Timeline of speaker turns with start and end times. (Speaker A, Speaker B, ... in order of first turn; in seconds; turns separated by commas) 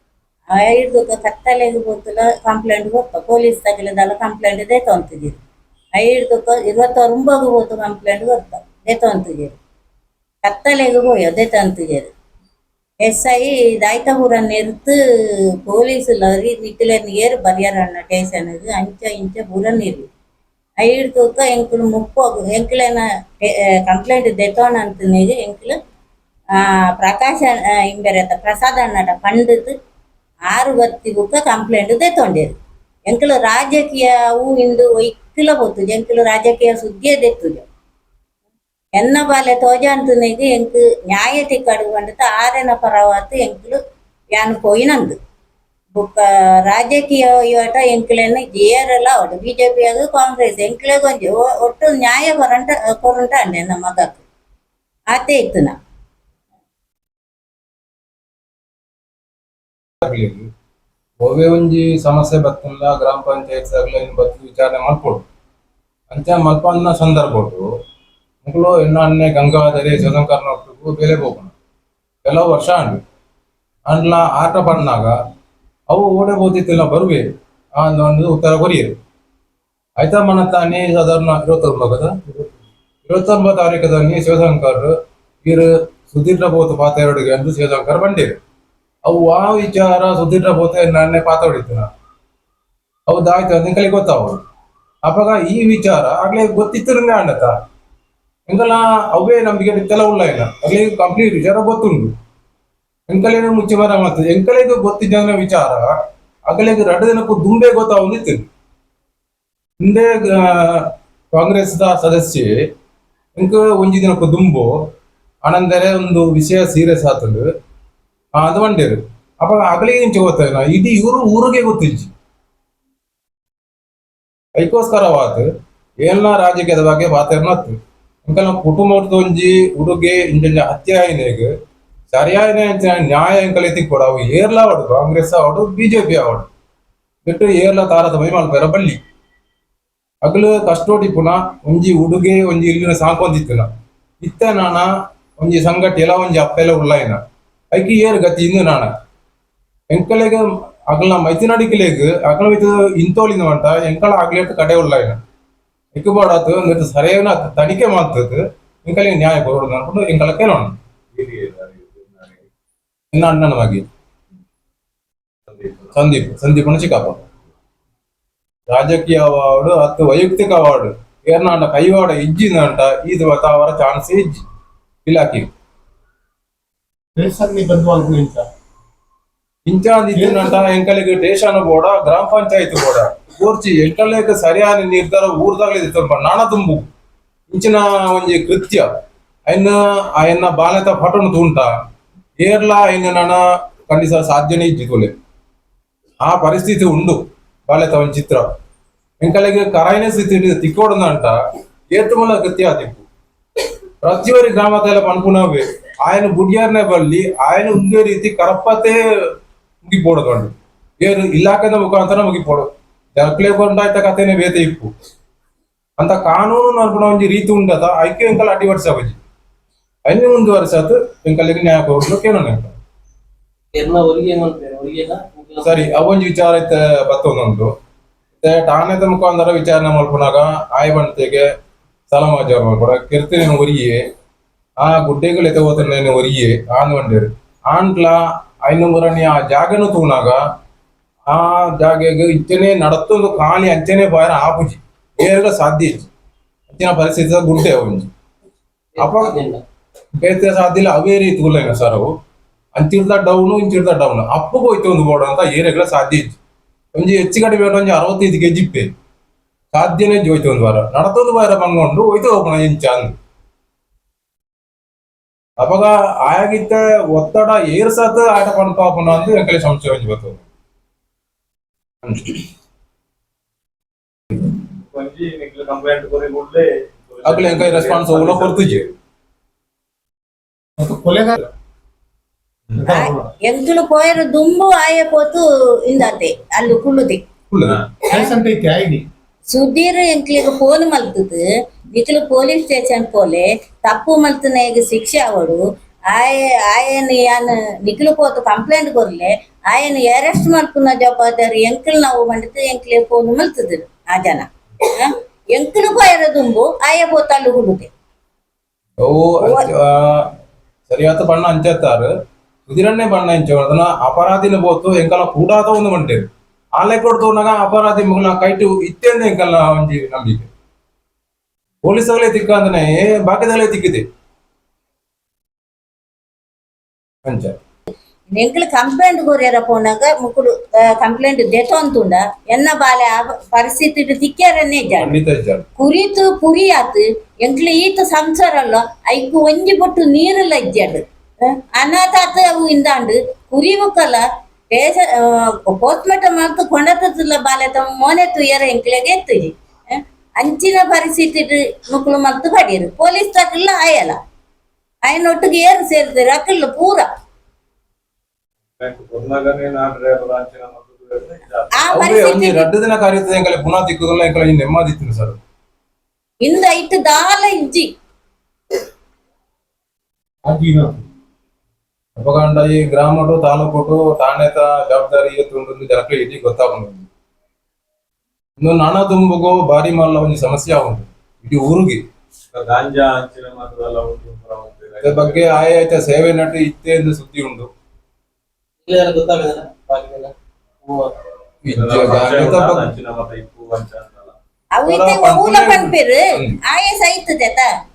Speaker A: 0.5-5.4, Speaker A: 6.0-9.6, Speaker A: 10.4-12.1, Speaker A: 13.0-14.9, Speaker A: 15.6-20.1, Speaker A: 20.8-25.7, Speaker A: 26.6-29.7, Speaker A: 30.5-32.5, Speaker A: 33.1-37.6, Speaker A: 39.0-43.8, Speaker A: 44.3-45.1, Speaker A: 45.9-54.2, Speaker A: 55.1-55.7, Speaker B: 60.0-60.5, Speaker B: 61.2-65.2, Speaker B: 66.1-67.7, Speaker B: 68.4-71.5, Speaker B: 72.2-73.0, Speaker B: 73.9-75.1, Speaker B: 75.9-77.3, Speaker B: 77.8-78.9, Speaker B: 80.0-82.2, Speaker B: 83.0-84.9, Speaker B: 85.4-88.3, Speaker B: 89.0-91.9, Speaker B: 93.1-94.4, Speaker B: 95.0-97.5, Speaker B: 98.5-102.1, Speaker B: 103.1-105.9, Speaker B: 106.5-108.4, Speaker B: 109.8-112.5, Speaker B: 113.3-114.7, Speaker B: 115.4-117.5, Speaker B: 118.4-122.1, Speaker B: 124.5-125.5, Speaker B: 126.0-131.5, Speaker B: 132.1-136.5, Speaker B: 137.2-139.0, Speaker B: 140.2-143.7, Speaker B: 144.2-147.2, Speaker B: 147.7-148.9, Speaker B: 149.9-155.2, Speaker B: 155.9-160.8, Speaker C: 161.1-162.5, Speaker B: 163.1-163.8, Speaker C: 165.5-165.9, Speaker B: 165.9-167.2, Speaker B: 168.7-174.4, Speaker B: 175.1-175.5, Speaker D: 177.2-178.4, Speaker B: 179.7-186.9, Speaker D: 180.1-180.6, Speaker B: 187.5-188.9, Speaker B: 189.5-191.7, Speaker B: 192.4-195.1, Speaker B: 196.2-198.4, Speaker B: 199.2-201.4, Speaker B: 201.9-203.0, Speaker B: 204.0-209.0, Speaker B: 209.8-212.7, Speaker B: 213.2-214.9, Speaker B: 216.0-219.2, Speaker B: 220.1-222.7, Speaker E: 223.7-225.8, Speaker B: 225.6-227.7, Speaker B: 228.4-231.4, Speaker B: 232.1-234.0, Speaker B: 234.8-240.4, Speaker B: 241.3-246.1, Speaker B: 246.7-248.1, Speaker E: 248.9-249.6, Speaker B: 249.0-249.4, Speaker B: 250.2-252.1, Speaker B: 252.7-256.4, Speaker B: 256.9-258.9, Speaker B: 259.7-263.1, Speaker B: 265.6-270.4, Speaker B: 272.0-272.4, Speaker C: 274.7-278.9, Speaker B: 277.2-278.8, Speaker D: 280.8-281.5, Speaker D: 282.8-283.3, Speaker A: 282.9-287.2, Speaker B: 287.5-287.8, Speaker A: 288.1-288.3, Speaker D: 288.1-289.0, Speaker A: 289.5-291.4, Speaker A: 291.9-307.9, Speaker B: 309.0-310.3, Speaker A: 309.4-309.7, Speaker B: 310.9-312.1, Speaker B: 312.7-316.3, Speaker B: 316.8-320.5, Speaker B: 321.8-324.0, Speaker B: 327.2-327.5, Speaker A: 328.3-335.1, Speaker B: 335.0-335.6, Speaker A: 335.8-341.0, Speaker A: 341.5-354.2, Speaker A: 355.0-357.1, Speaker C: 358.7-362.1, Speaker A: 361.8-362.7, Speaker B: 361.9-365.4, Speaker A: 366.4-367.9, Speaker D: 370.4-371.0, Speaker B: 372.1-377.1, Speaker B: 378.6-382.0, Speaker C: 382.5-385.6, Speaker B: 385.0-387.7, Speaker E: 388.9-390.3, Speaker E: 390.8-391.1, Speaker B: 391.6-392.9, Speaker C: 391.7-394.4, Speaker A: 394.7-397.7, Speaker B: 394.9-396.6